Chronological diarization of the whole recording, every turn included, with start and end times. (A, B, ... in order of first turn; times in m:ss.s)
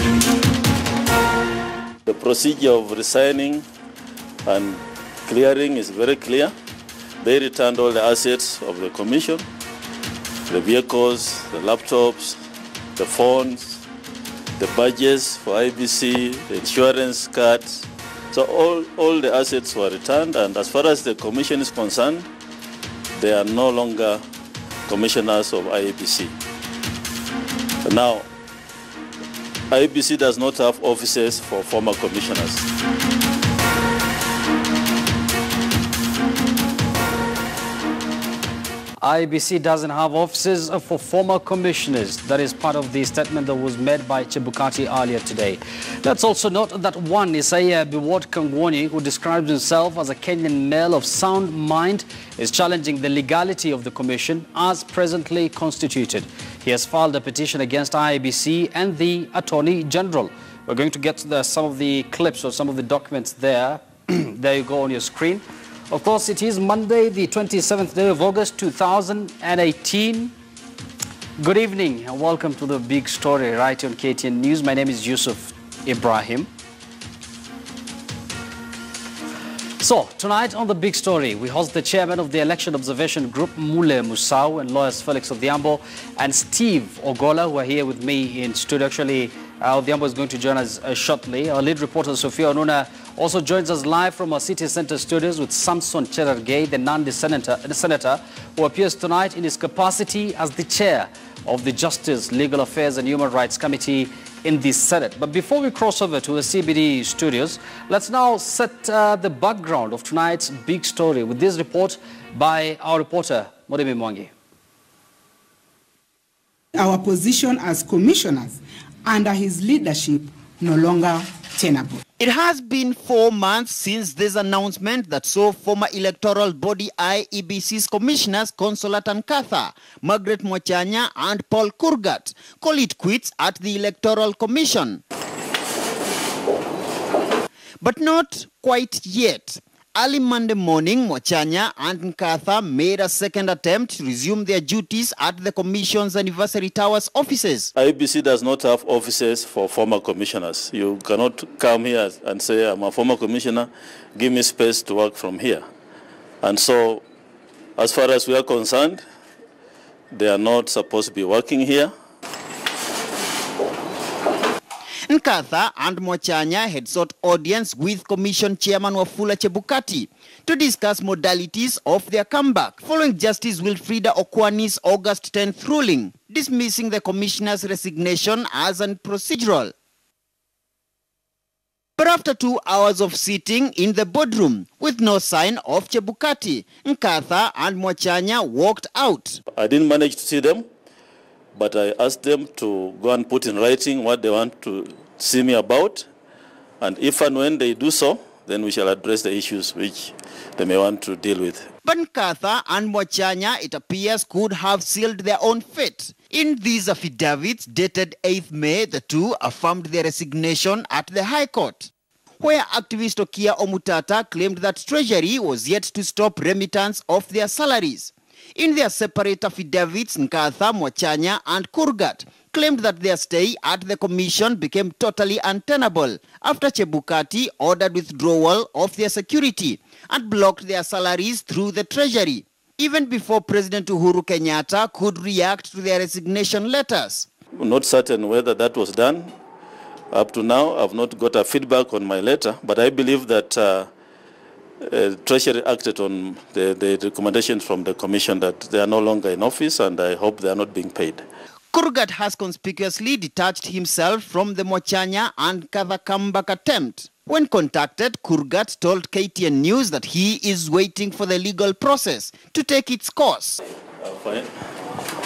0:02.0-0:03.6 A
0:04.4-0:06.5 A
0:07.2-0:09.4 A
0:10.5-0:12.4 A
0:13.0-0:13.8 A
0:14.6-0:22.3 A
0:23.2-0:24.2 A
0:24.9-0:26.3 A
0:27.8-0:28.2 A
0:29.7-0:32.6 A
0:39.0-1:10.3 B
1:11.4-1:16.5 B
1:19.8-1:54.3 B
1:56.7-2:02.0 C
2:02.2-2:15.0 D
2:17.8-2:27.7 D
2:27.8-2:35.6 A
2:36.4-2:37.0 A
2:37.8-2:39.0 A
2:40.1-2:41.9 A
2:45.1-2:59.7 D
3:02.0-3:09.4 D
3:09.6-3:10.6 A
3:11.5-3:16.1 A
3:16.8-3:21.7 A
3:21.8-3:57.3 D
3:57.6-3:59.3 A
4:00.1-4:03.9 A
4:04.8-4:11.2 A
4:11.7-4:23.6 D
4:24.0-4:24.5 A